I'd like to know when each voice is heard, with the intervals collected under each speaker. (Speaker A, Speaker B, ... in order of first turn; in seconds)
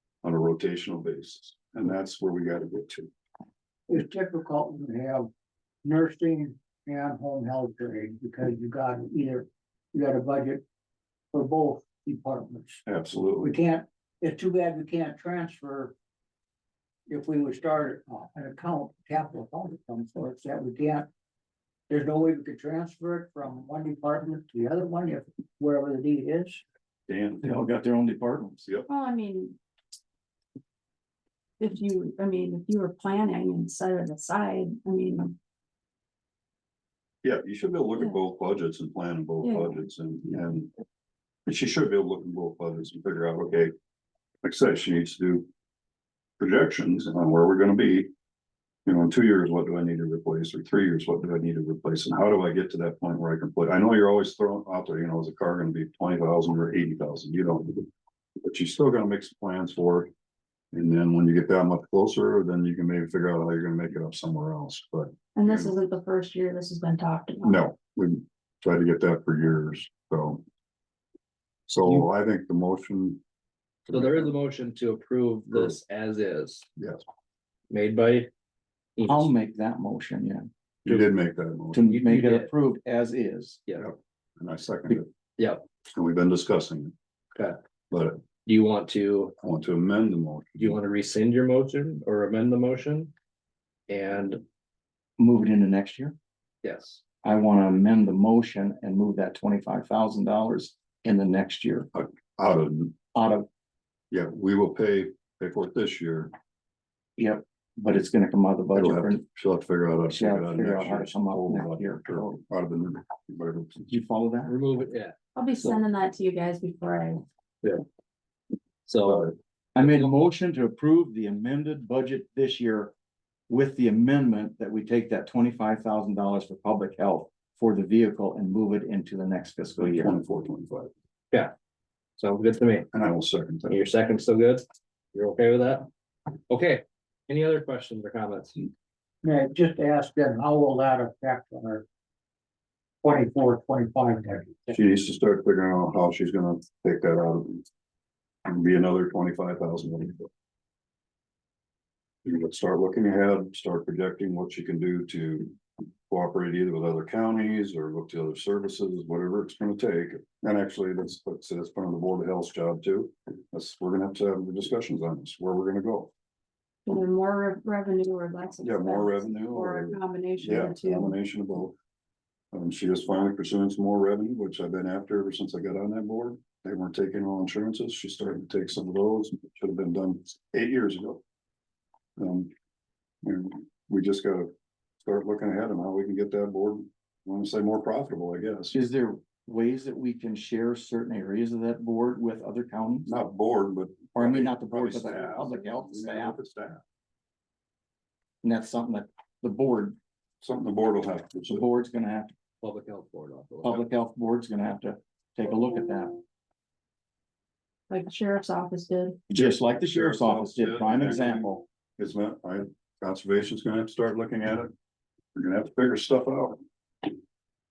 Speaker A: 0.2-3.1, 12.9-13.5, 27.1-27.5, 37.2-40.7, 41.5-43.7, 44.4-45.5, 46.4-48.1, 48.9-57.9, 58.4-60.1, 60.7-65.7, 67.4-70.4, 71.7-73.2, 73.9-74.3, 75.5-75.8, 76.8-77.0, 80.8-81.9, 83.8-85.1, 85.9-86.9, 87.9-88.2, 89.4-90.8, 101.9-103.0, 104.1-106.3, 108.7-113.9, 119.0-119.3, 129.8-130.9, 132.9-133.8, 144.7-147.7, 148.5-150.3, 152.2-166.1, 168.6-171.8, 172.5-181.2, 182.2-182.5, 183.2-184.5, 185.0-188.7, 193.1-196.8, 200.4-201.6, 209.3-214.7, 215.3-217.1
Speaker B: 3.9-5.3, 5.8-10.6, 11.3-12.8, 13.4-15.9, 17.1-21.1, 21.9-26.6, 139.2-141.8, 143.0-144.8
Speaker C: 27.4-28.6, 79.1-80.5, 81.7-83.6, 95.2-96.2, 97.2-101.9, 103.1-103.5, 107.2-109.2, 110.1-112.4, 113.9-114.5, 119.8-122.9, 123.5-130.2, 188.7-193.1, 194.2-196.4, 198.4-200.0, 201.5-202.3, 203.6-206.2, 209.3-211.6
Speaker D: 28.9-29.6, 31.6-35.4, 39.4-39.7, 65.3-67.6, 115.4-117.2, 166.9-171.2, 207.9-209.2
Speaker E: 73.9-76.7, 77.7-78.3, 79.0-79.3, 81.8-82.5, 88.5-89.3, 90.6-93.1, 93.9-94.4, 96.6-97.0, 114.5-115.8, 118.9-120.1, 132.2-132.9, 133.7-135.9, 136.5-138.7, 202.6-203.9